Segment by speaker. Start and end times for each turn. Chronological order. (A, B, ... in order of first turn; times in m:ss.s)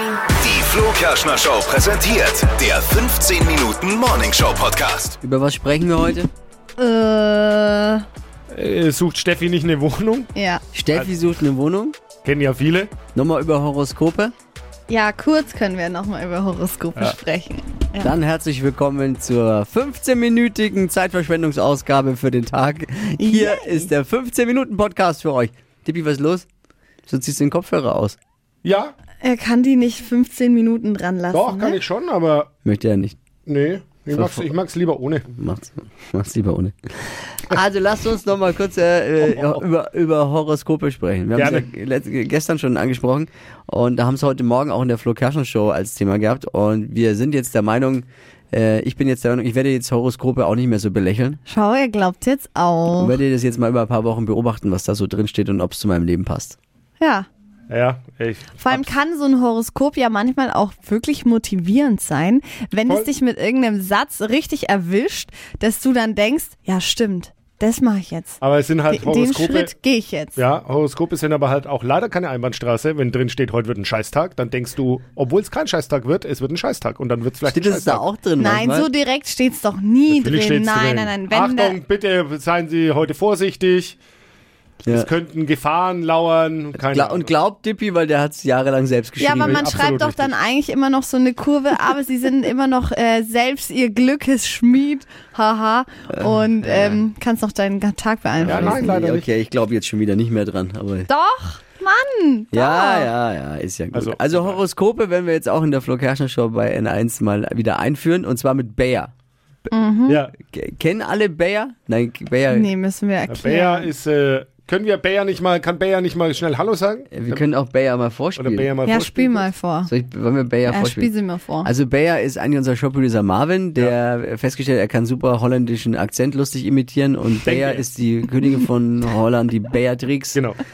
0:00.4-0:05.2 A
0:05.2-0:06.3 B
0:06.8-0:08.0 C
0:08.5-0:10.3 D
0:10.3-0:10.6 C
0:10.7-0:12.0 B
0:12.2-0:13.0 D
0:13.1-0:14.3 B
0:14.9-0:18.1 C
0:18.0-0:26.5 B
0:23.2-0:23.9 C
0:27.1-0:28.2 B
0:28.6-0:29.0 D
0:29.2-0:31.8 C
0:31.3-0:32.5 D
0:32.6-0:33.2 B
0:33.5-0:35.3 D
0:34.1-0:34.5 B
0:35.3-0:51.4 B
0:39.2-0:39.6 D
0:41.4-0:41.7 D
0:51.5-0:53.2 C
0:52.9-0:56.6 B
0:57.0-0:57.3 C
0:57.7-0:58.9 D
0:58.6-1:10.4 C
1:08.4-1:09.7 D
1:10.4-1:18.1 D
1:17.4-1:18.9 B
1:18.4-1:21.8 C
1:20.1-1:24.0 D
1:24.8-1:25.1 B
1:24.9-1:27.3 D
1:26.8-1:29.9 B
1:29.2-1:38.8 C
1:29.4-1:30.3 D
1:36.1-1:37.0 B
1:38.4-1:41.1 B
1:38.4-1:39.3 D
1:41.1-1:43.1 C
1:42.5-1:49.1 B
1:43.9-1:44.6 D
1:49.7-1:50.2 C
1:50.1-1:50.3 D
1:50.4-1:52.7 B
1:52.5-1:53.9 C
1:53.3-1:57.4 D
1:57.1-1:58.7 B
1:58.4-1:59.5 D
1:58.8-1:59.9 C
1:59.9-2:01.1 B
2:00.7-2:01.7 C
2:01.6-2:10.4 B
2:07.4-2:07.9 D